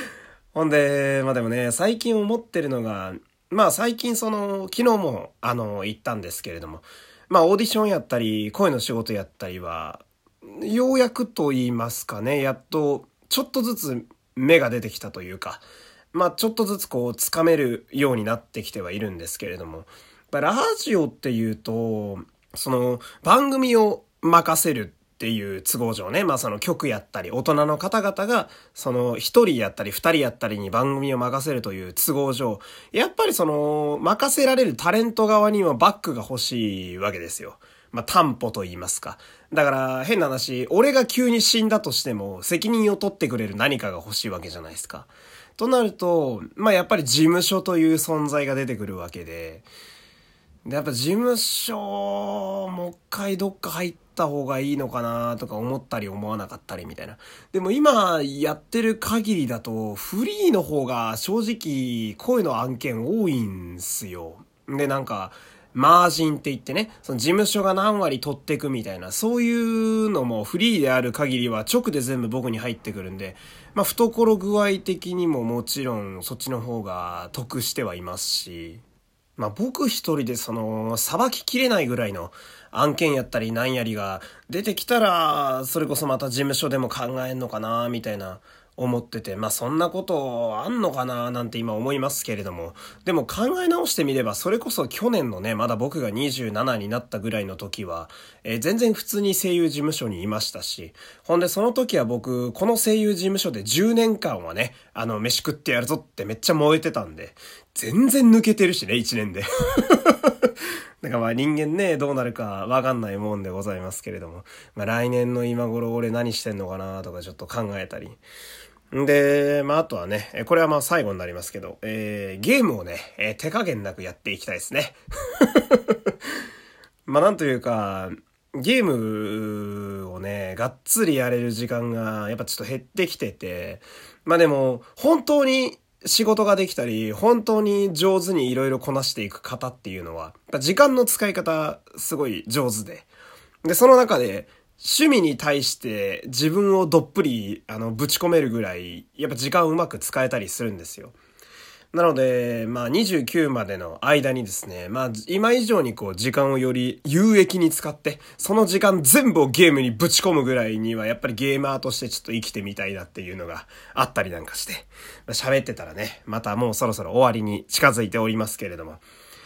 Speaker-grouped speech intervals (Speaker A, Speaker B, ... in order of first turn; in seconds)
Speaker A: 0.5-49.6, 50.6-78.8, 79.4-110.3, 111.0-118.2, 118.9-126.1, 127.0-143.1, 143.6-151.2, 151.9-169.0